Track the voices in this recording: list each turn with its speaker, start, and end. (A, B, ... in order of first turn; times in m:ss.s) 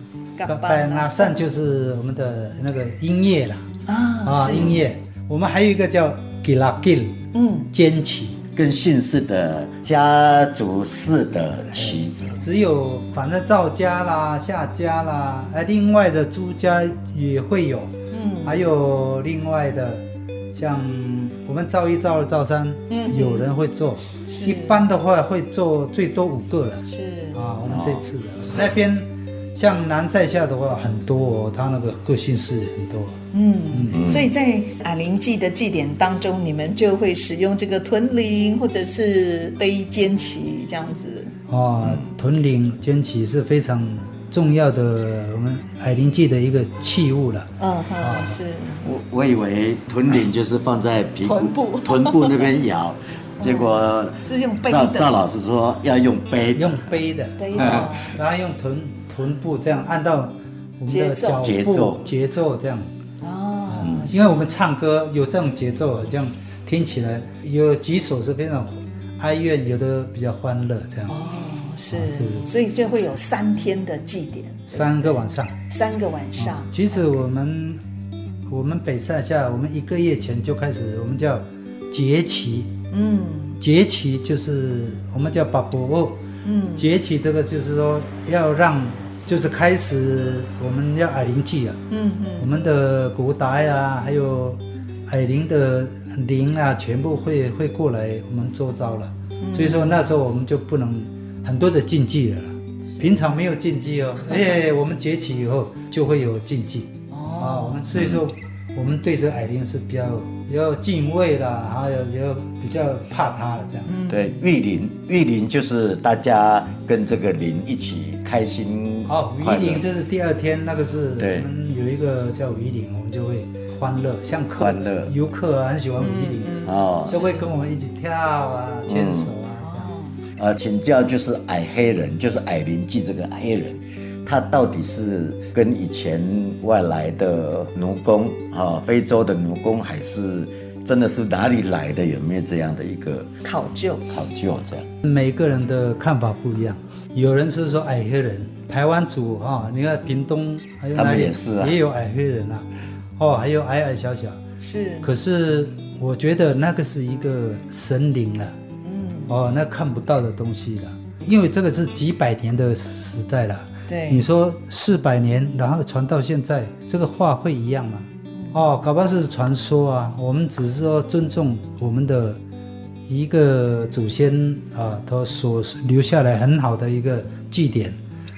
0:00.4-0:01.5 A
0:00.4-0:03.7 B
0:03.9-0:04.8 A
0:04.2-0:07.2 B
0:07.3-0:07.7 A
0:07.7-0:08.4 B
0:08.5-0:12.4 C
0:11.7-0:33.2 B
0:18.1-0:18.7 A
0:22.9-0:23.5 A
0:24.3-0:24.8 A
0:26.8-0:27.4 A
0:27.7-0:28.1 C
0:33.3-0:41.3 A
0:33.7-0:34.0 B
0:33.9-0:34.3 C
0:41.5-0:48.4 B
0:47.6-0:48.8 A
0:48.8-0:56.9 C
0:51.2-0:52.4 A
0:53.4-0:55.1 A
0:56.5-1:02.9 B
0:57.4-0:58.2 A
0:57.6-0:57.9 C
1:00.9-1:01.4 A
1:01.4-1:02.0 C
1:03.2-1:04.6 A
1:03.7-1:11.2 B
1:03.8-1:04.1 C
1:11.1-1:17.2 A
1:11.9-1:12.5 B
1:14.7-1:15.6 B
1:16.4-1:17.8 B
1:18.5-1:22.7 B
1:22.9-1:23.6 A
1:23.6-1:26.2 B
1:26.4-1:26.9 A
1:26.8-1:31.8 B
1:31.9-1:32.6 A
1:32.4-1:54.0 B
1:39.4-1:40.1 A
1:43.0-1:43.3 A
1:44.3-1:44.6 A
1:47.1-1:47.9 A
1:47.9-1:48.2 C
1:53.9-1:54.4 A
1:54.1-1:59.8 C
1:59.0-2:09.9 B
2:01.2-2:01.5 C
2:04.6-2:05.1 C
2:06.0-2:07.6 A
2:06.6-2:07.2 C
2:08.9-2:09.3 C
2:09.6-2:10.2 A
2:10.4-2:23.3 C
2:23.4-2:24.1 A
2:24.1-2:24.9 C
2:25.0-2:34.4 B
2:30.9-2:31.8 C
2:34.6-2:35.1 A
2:35.0-2:38.5 B
2:38.8-2:39.4 A
2:39.3-2:52.4 B
2:43.9-2:44.2 A
2:53.1-2:58.0 B